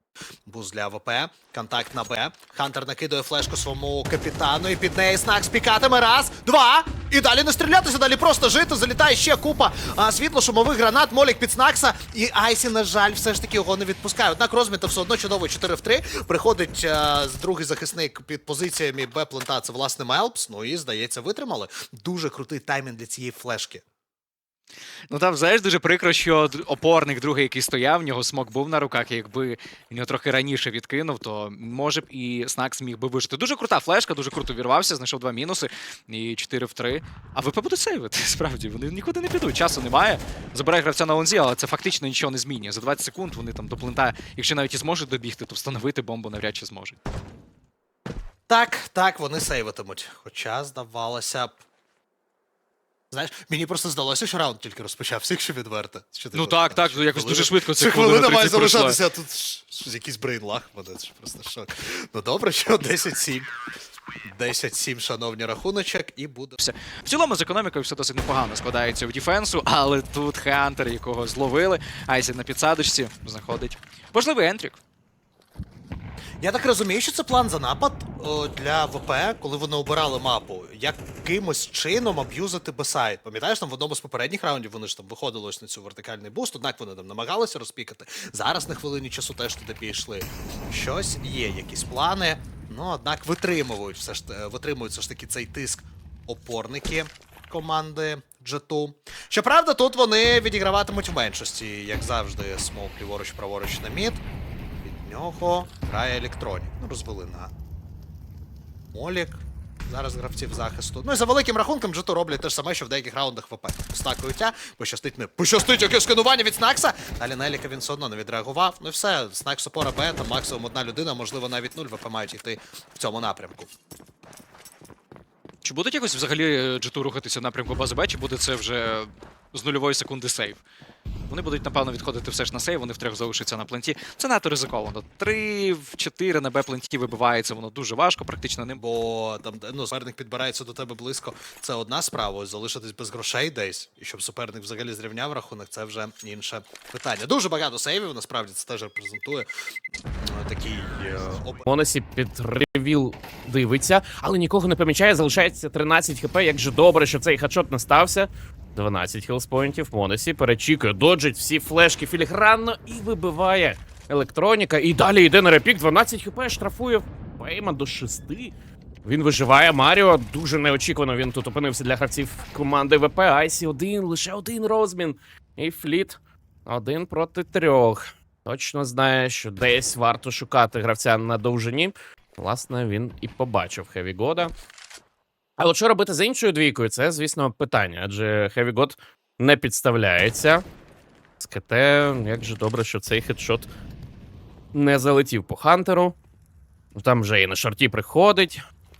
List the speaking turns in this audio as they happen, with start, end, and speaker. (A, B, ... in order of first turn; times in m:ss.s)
0:00.4-0:23.8 A
0:25.1-0:47.0 B
0:48.5-0:51.6 A
0:53.1-1:03.5 A
0:56.3-0:59.0 B
1:04.2-1:06.6 A
1:06.6-1:14.8 B
1:16.4-1:44.2 A
1:44.8-1:47.5 A
1:48.9-2:03.7 A
2:05.6-2:10.6 B
2:11.3-2:18.8 B
2:18.8-2:29.5 A
2:30.1-2:31.6 A
2:31.6-2:48.5 C
2:49.0-3:04.5 C
3:05.6-3:10.6 C
3:11.4-3:13.7 C
3:14.7-3:16.1 C
3:16.9-3:18.6 C